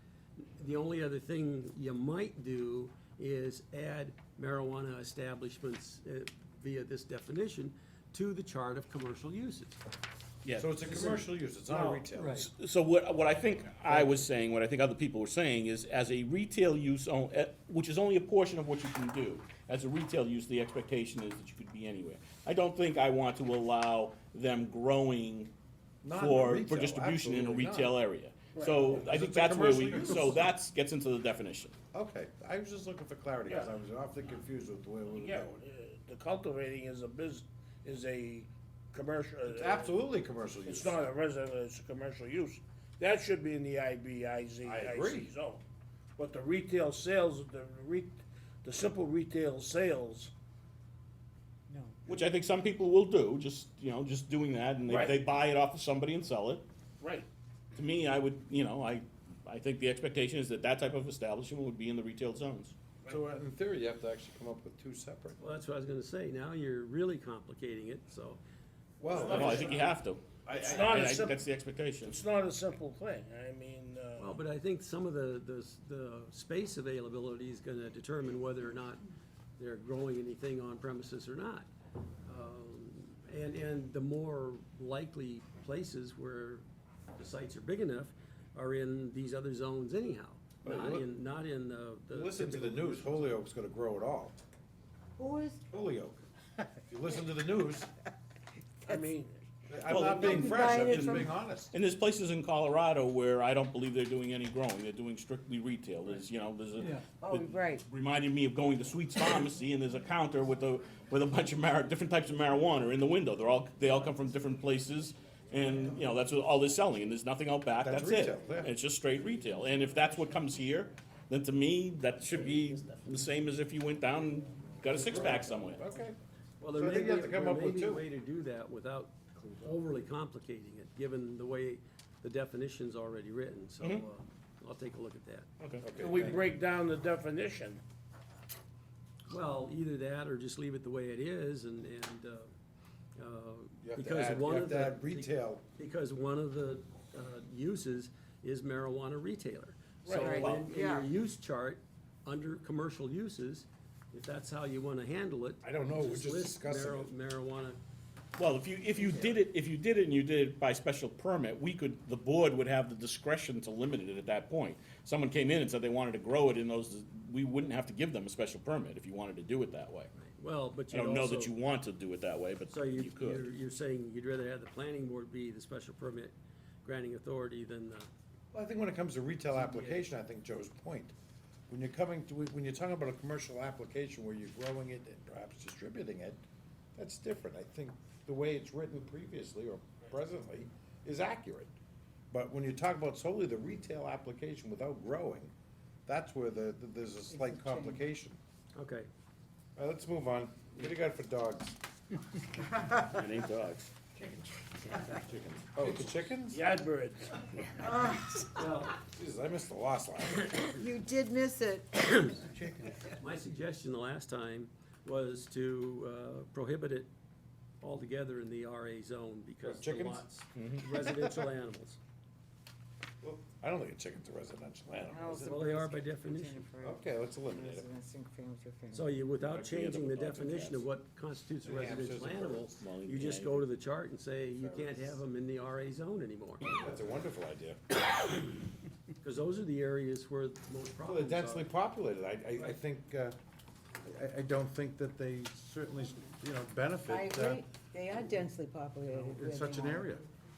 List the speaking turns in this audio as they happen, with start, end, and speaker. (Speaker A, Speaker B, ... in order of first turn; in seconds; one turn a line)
Speaker A: 0.4-9.8
Speaker B: 10.4-11.1
Speaker C: 10.6-12.5
Speaker B: 11.7-25.5
Speaker A: 12.2-12.5
Speaker A: 13.9-14.2
Speaker C: 26.0-28.0
Speaker B: 26.1-31.7
Speaker D: 28.6-28.9
Speaker C: 28.9-30.5
Speaker C: 31.9-35.5
Speaker D: 33.5-33.7
Speaker D: 35.1-40.0
Speaker C: 39.5-41.0
Speaker D: 40.6-45.6
Speaker C: 44.6-45.3
Speaker D: 46.2-50.3
Speaker E: 51.7-52.0
Speaker B: 52.1-56.6
Speaker C: 54.9-55.2
Speaker D: 57.0-57.3
Speaker B: 57.7-62.8
Speaker C: 63.1-65.4
Speaker A: 65.4-68.4
Speaker C: 69.0-69.9
Speaker B: 69.1-72.2
Speaker C: 70.5-71.2
Speaker D: 70.6-71.4
Speaker D: 72.0-74.4
Speaker A: 74.2-79.0
Speaker A: 79.6-81.7
Speaker A: 82.2-86.7
Speaker A: 87.2-93.4
Speaker C: 90.6-91.1
Speaker C: 92.1-94.3
Speaker E: 95.2-95.6
Speaker C: 95.7-96.2
Speaker C: 96.8-97.9
Speaker D: 98.8-99.3
Speaker C: 99.7-101.8
Speaker B: 99.9-125.8
Speaker E: 100.0-101.3
Speaker E: 107.2-107.8
Speaker C: 117.8-118.8
Speaker C: 125.0-126.2
Speaker A: 126.6-135.5
Speaker C: 126.7-128.1
Speaker B: 133.8-134.1
Speaker B: 135.6-135.9
Speaker C: 135.8-136.4
Speaker D: 136.0-137.8
Speaker A: 139.3-142.5
Speaker A: 143.2-157.8
Speaker C: 143.8-145.7
Speaker B: 150.1-150.7
Speaker D: 150.1-150.4
Speaker E: 150.1-151.1
Speaker C: 155.6-157.1
Speaker B: 158.4-170.1
Speaker A: 159.0-159.4
Speaker A: 170.2-171.6
Speaker B: 170.9-173.5
Speaker A: 172.7-178.1
Speaker C: 178.5-181.1
Speaker A: 179.5-180.1
Speaker C: 181.7-186.4
Speaker C: 187.0-191.7
Speaker C: 192.3-195.5
Speaker C: 196.1-198.4
Speaker E: 197.3-198.0
Speaker A: 198.8-199.1
Speaker C: 199.8-201.8
Speaker B: 202.9-203.9
Speaker B: 204.9-206.1
Speaker C: 205.8-206.6
Speaker D: 206.5-207.4
Speaker E: 207.8-208.3
Speaker A: 208.6-209.0
Speaker C: 208.9-210.6
Speaker E: 210.5-212.6
Speaker A: 212.1-212.4
Speaker A: 213.0-217.1
Speaker A: 217.8-222.0
Speaker C: 219.6-220.2
Speaker B: 220.6-220.8
Speaker C: 220.9-221.4
Speaker C: 223.2-225.6
Speaker E: 225.1-229.1
Speaker A: 225.4-226.7
Speaker C: 226.8-227.9
Speaker A: 228.9-236.7
Speaker B: 229.4-230.9
Speaker C: 231.6-232.7
Speaker B: 232.8-233.7
Speaker C: 234.6-235.2
Speaker C: 236.6-237.8
Speaker A: 239.2-241.7
Speaker C: 241.1-243.4
Speaker C: 244.0-247.7
Speaker E: 247.1-250.2
Speaker C: 249.1-250.2